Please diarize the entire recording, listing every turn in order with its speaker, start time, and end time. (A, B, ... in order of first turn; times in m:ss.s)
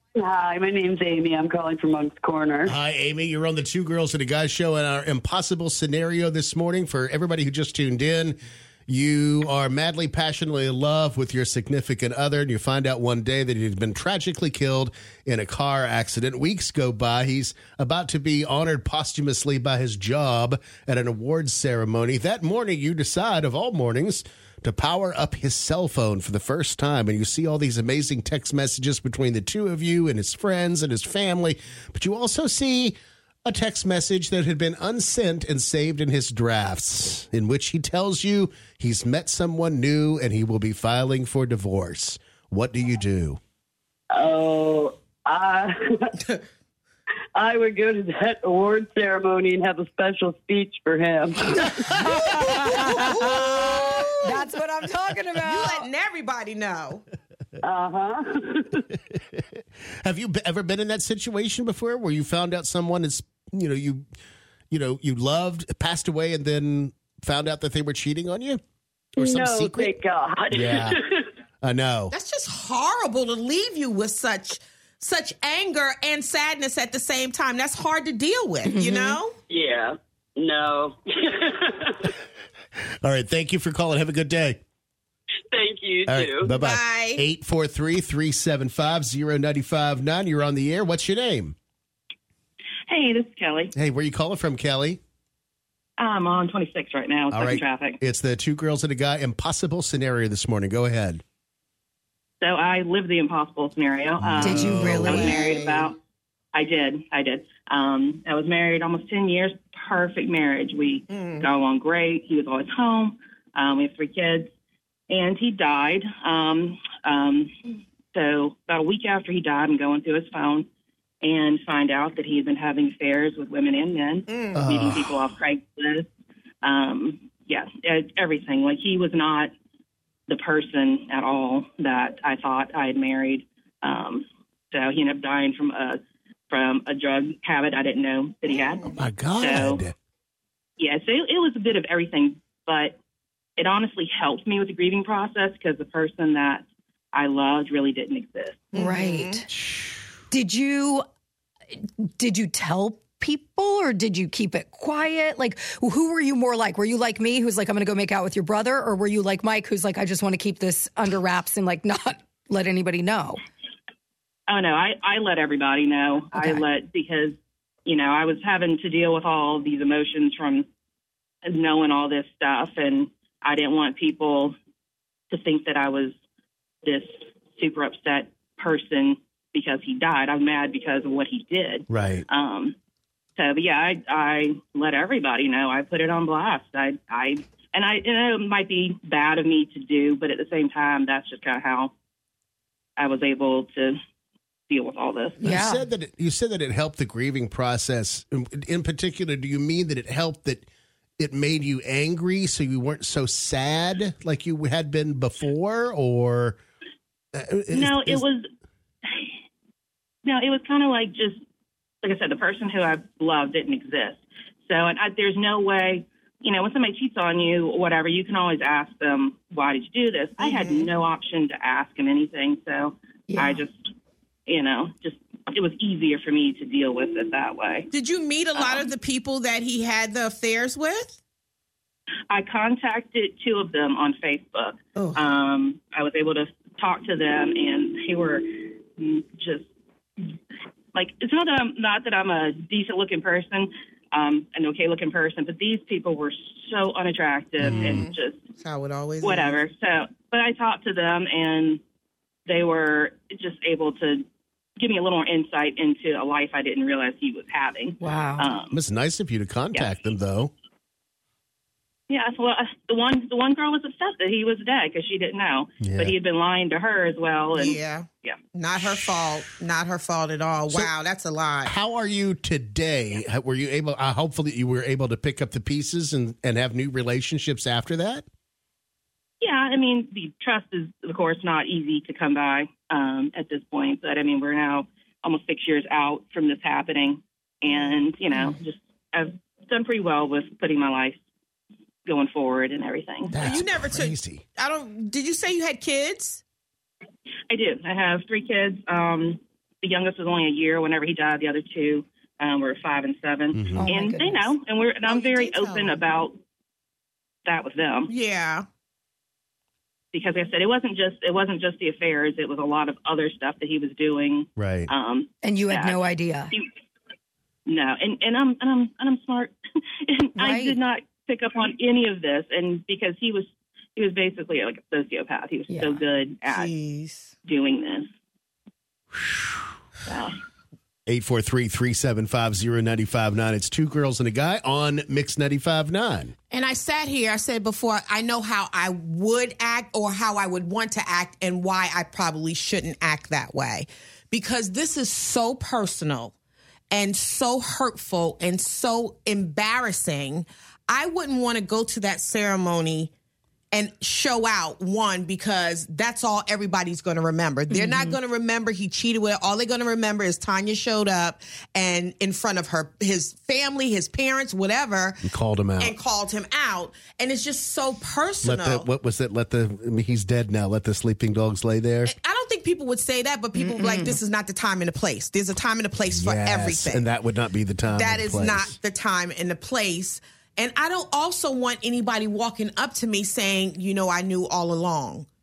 0:00.2-0:02.7 A
0:02.6-0:43.4 B
0:44.1-0:46.1 A
0:47.4-0:51.8 A
0:52.3-0:55.9 C
0:52.4-0:54.4 D
0:55.4-0:57.0 D
0:57.6-0:58.8 A
0:59.1-0:59.4 B
1:00.0-1:04.1 B
1:04.7-1:08.6 B
1:09.2-1:10.0 B
1:09.2-1:11.3 A
1:10.5-1:11.0 B
1:11.6-1:12.1 B
1:12.1-1:19.4 D
1:18.6-1:19.2 C
1:19.5-1:22.1 A
1:23.0-1:24.6 B
1:25.5-1:26.5 A
1:26.1-1:31.6 B
1:26.5-1:27.2 D
1:32.9-1:33.7 E
1:33.8-1:35.0 B
1:36.0-1:38.0 E
1:37.3-1:41.2 B
1:42.4-1:46.0 E
1:44.2-1:45.3 B
1:44.4-1:45.4 C
1:44.6-1:45.9 D
1:46.5-1:54.5 E
1:51.1-1:51.5 D
1:55.1-1:57.5 E
1:58.1-2:00.7 E
2:01.2-2:06.1 E
2:04.3-2:04.6 D
2:04.6-2:05.1 B
2:06.6-2:09.5 E
2:10.3-2:16.0 E
2:16.5-2:19.8 E
2:19.0-2:20.0 B
2:20.8-2:23.0 E
2:23.6-2:28.7 E
2:28.7-2:29.4 D
2:28.7-2:29.5 C
2:29.5-2:30.0 B
2:30.3-2:31.0 C
2:31.8-2:43.4 C
2:44.5-2:50.7 E
2:46.3-2:46.6 C
2:51.4-2:54.6 E
2:55.3-2:56.2 E
2:56.8-3:02.8 E
3:01.9-3:02.2 B
3:03.4-3:11.9 E
3:13.0-3:14.0 E
3:14.7-3:15.4 E
3:15.4-3:15.8 C
3:15.4-3:20.6 B
3:21.2-3:26.6 B
3:27.4-3:28.2 B
3:27.7-3:28.4 E
3:30.2-3:31.4 E
3:32.0-3:43.9 E
3:40.4-3:40.9 D
3:43.3-3:43.6 C
3:44.5-3:47.9 E
3:47.9-3:51.2 D
3:48.6-3:48.9 E
3:52.3-3:59.7 E
3:55.0-3:55.3 D
4:00.9-4:08.4 E
4:07.6-4:08.1 B
4:07.6-4:09.6 D
4:09.2-4:11.8 E
4:12.5-4:14.2 E
4:14.8-4:18.8 E
4:18.0-4:18.5 C
4:18.7-4:20.5 B
4:22.1-4:28.4 E
4:25.8-4:26.1 B
4:27.6-4:31.7 D
4:31.6-4:38.2 B
4:39.4-4:51.2 E
4:47.7-4:48.0 D
4:52.0-4:53.4 E
4:53.3-4:54.4 B
4:53.4-4:56.4 D
4:57.5-5:06.4 E
5:03.5-5:03.9 B
5:03.8-5:04.5 C
5:05.1-5:06.0 D
5:07.5-5:08.1 E
5:08.1-5:08.7 D
5:10.1-5:16.0 E
5:14.6-5:14.9 B
5:15.4-5:16.6 C
5:17.7-5:19.6 E
5:20.1-5:26.7 E
5:20.4-5:20.8 C
5:25.7-5:26.0 C
5:26.5-5:27.3 D
5:27.5-5:28.1 E
5:30.1-5:30.4 E
5:31.1-5:36.3 B
5:36.5-5:46.3 D
5:46.9-5:53.1 D
5:53.7-6:05.2 D
5:57.7-5:58.2 C
6:05.2-6:06.0 B
6:05.8-6:08.9 D
6:08.4-6:12.1 B
6:12.1-6:17.1 D
6:13.6-6:14.2 C
6:16.1-6:18.8 B
6:17.9-6:25.3 D